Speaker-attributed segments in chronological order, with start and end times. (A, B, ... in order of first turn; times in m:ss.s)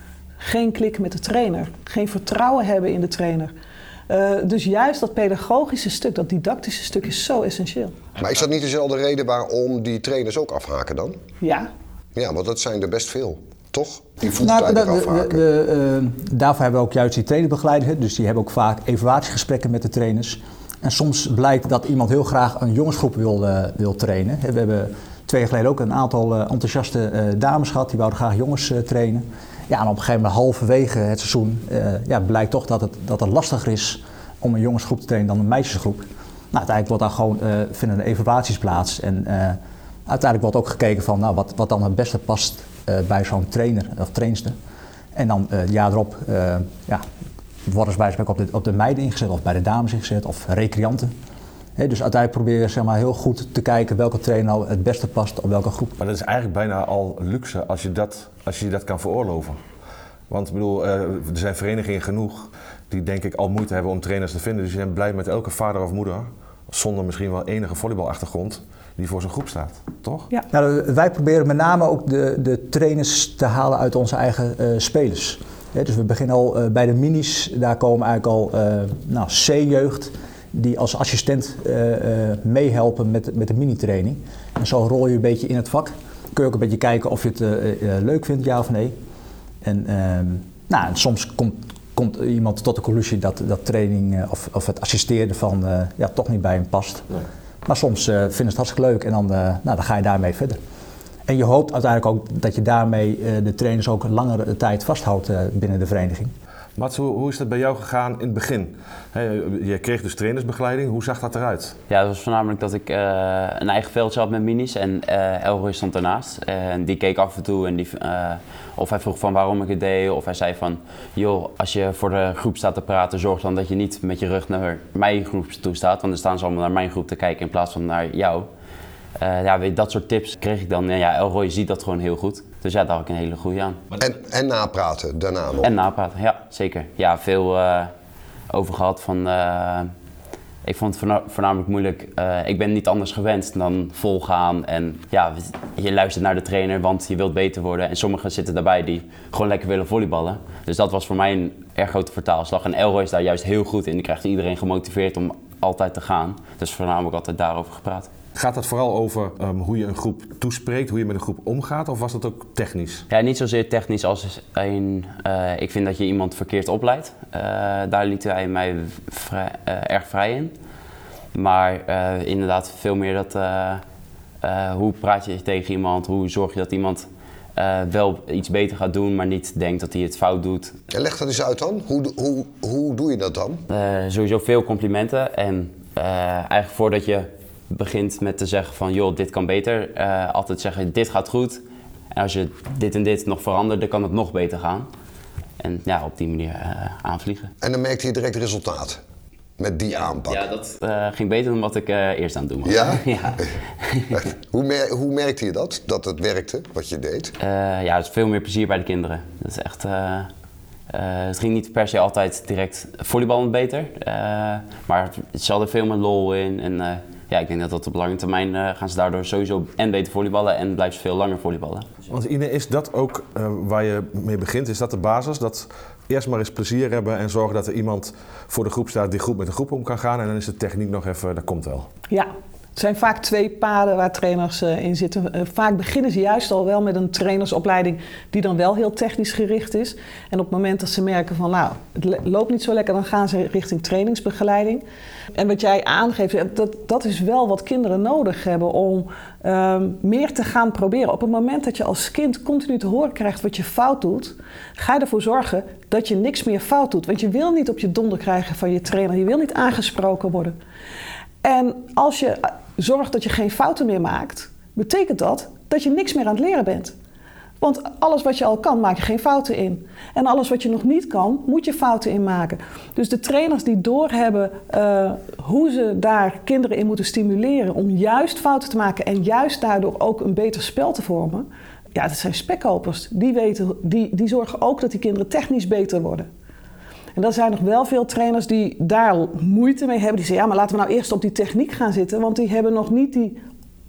0:00.4-0:03.5 A
0:04.1-0:08.0 A
0:08.2-0:11.2 B
0:11.4-0:11.7 A
0:12.1-0:15.4 B
0:14.4-0:44.5 C
0:45.1-0:47.0 C
0:47.6-0:51.1 C
0:51.8-0:56.0 C
0:56.0-0:59.6 D
1:00.3-1:10.3 D
1:10.5-1:28.9 C
1:29.6-1:40.6 C
1:41.3-1:46.3 C
1:46.8-1:51.8 D
1:51.9-2:08.5 E
2:09.2-2:13.8 E
2:14.0-2:15.7 B
2:15.6-2:17.9 E
2:18.5-2:19.9 E
2:20.6-2:38.1 E
2:38.3-2:43.0 D
2:43.1-2:50.5 E
2:51.3-2:53.8 E
2:54.4-3:00.8 E
3:00.9-3:03.6 B
3:03.7-3:14.9 E
3:15.6-3:17.5 E
3:17.6-3:19.0 B
3:19.6-3:20.4 B
3:20.3-3:24.2 E
3:22.6-3:23.5 B
3:24.1-3:27.3 B
3:27.4-3:30.3 E
3:30.9-3:41.9 E
3:42.1-3:51.9 D
3:52.1-4:04.8 A
4:05.4-4:20.6 A
4:21.4-4:26.9 A
4:27.6-4:46.3 A
4:47.2-4:53.4 A